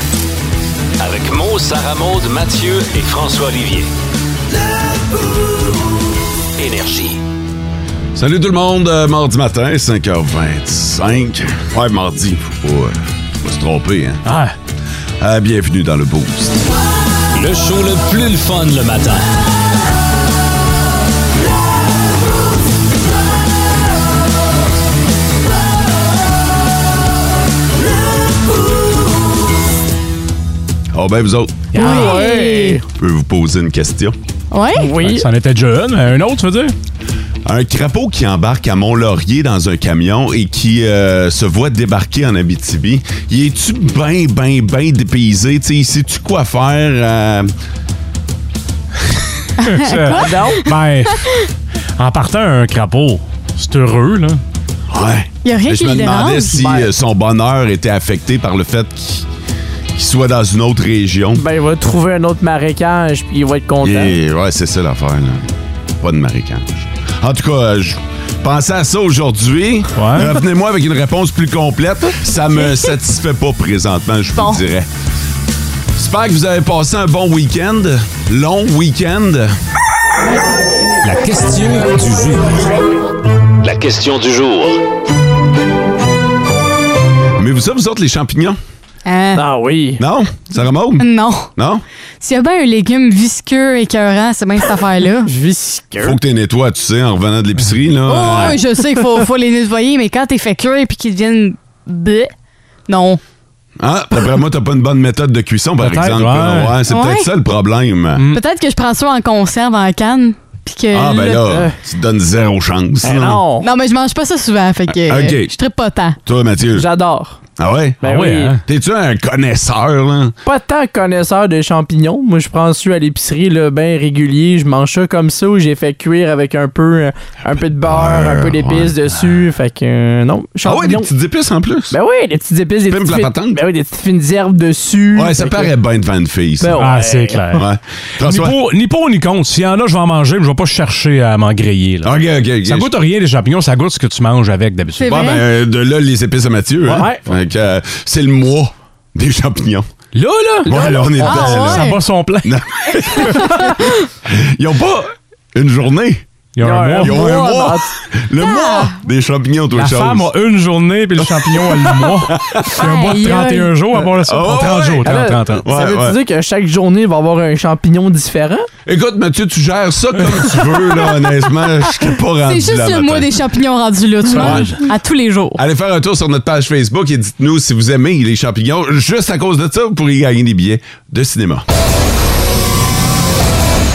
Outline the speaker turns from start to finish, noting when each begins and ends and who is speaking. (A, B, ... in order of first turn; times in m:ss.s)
0:01.0-0:03.9 A
0:06.6-0:07.2 A
0:08.2-0:14.2 A
0:14.2-0:14.5 B
0:15.2-0:16.7 A
0:17.3-0:19.3 C
0:30.9-0:31.7 A
0:31.7-0:32.2 B
0:31.8-0:32.8 D
0:31.8-0:32.8 E
0:32.9-0:34.2 A
0:34.5-0:34.9 D
0:34.8-0:35.3 E
0:35.0-0:36.7 B
0:37.4-0:47.5 A
0:49.6-0:50.6 D
0:49.6-0:51.3 B
0:50.1-0:50.7 E
0:52.0-0:54.4 B
0:54.9-0:59.3 A
0:55.4-0:56.6 D
0:56.5-0:56.9 E
0:59.9-1:01.4 A
1:01.4-1:04.2 E
1:03.8-1:05.5 A
1:06.0-1:14.9 A
1:10.0-1:10.4 B
1:12.6-1:12.9 D
1:14.4-1:14.6 D
1:16.0-1:19.5 A
1:21.0-1:22.5 C
1:23.6-1:24.8 C
1:27.4-1:28.6 A
1:29.1-1:29.4 D
1:29.4-1:30.0 E
1:30.0-1:31.8 A
1:31.0-1:31.5 D
1:32.2-1:35.3 D
1:35.2-1:36.2 E
1:36.0-1:38.6 A
1:38.1-1:42.3 D
1:42.9-1:43.2 D
1:43.8-1:48.3 A
1:45.8-1:46.8 B
1:46.9-1:47.3 D
1:48.3-1:51.5 D
1:50.9-1:53.4 A
1:51.5-1:51.7 E
1:53.0-1:53.7 E
1:53.6-1:56.2 D
1:54.9-1:55.6 A
1:56.2-1:56.9 A
1:56.7-1:57.4 E
1:57.6-1:58.0 A
1:58.0-1:58.6 E
1:58.0-1:58.6 B
1:58.6-2:00.4 A
2:00.4-2:11.1 E
2:07.9-2:08.9 A
2:10.6-2:12.0 A
2:11.9-2:15.7 E
2:12.9-2:13.6 A
2:15.1-2:16.9 A
2:16.6-2:17.6 E
2:16.8-2:17.7 B
2:17.5-2:18.6 A
2:18.2-2:25.1 B
2:22.0-2:22.9 A
2:25.0-2:25.4 D
2:25.0-2:29.9 A
2:26.9-2:27.2 E
2:30.1-2:32.6 B
2:30.7-2:31.8 A
2:30.7-2:31.5 E
2:31.2-2:32.0 D
2:32.4-2:33.7 A
2:33.1-2:33.5 B
2:34.2-2:36.2 A
2:36.6-2:37.3 B
2:36.6-2:37.9 E
2:37.0-2:40.3 A
2:38.4-2:39.0 D
2:39.7-2:45.7 B
2:41.2-2:42.7 A
2:42.8-2:43.7 D
2:44.2-2:46.2 A
2:45.0-2:48.7 E
2:48.9-2:53.3 A
2:50.3-2:50.6 B
2:52.5-2:55.6 D
2:54.4-2:54.8 A
2:54.4-2:54.8 B
2:55.6-3:01.6 A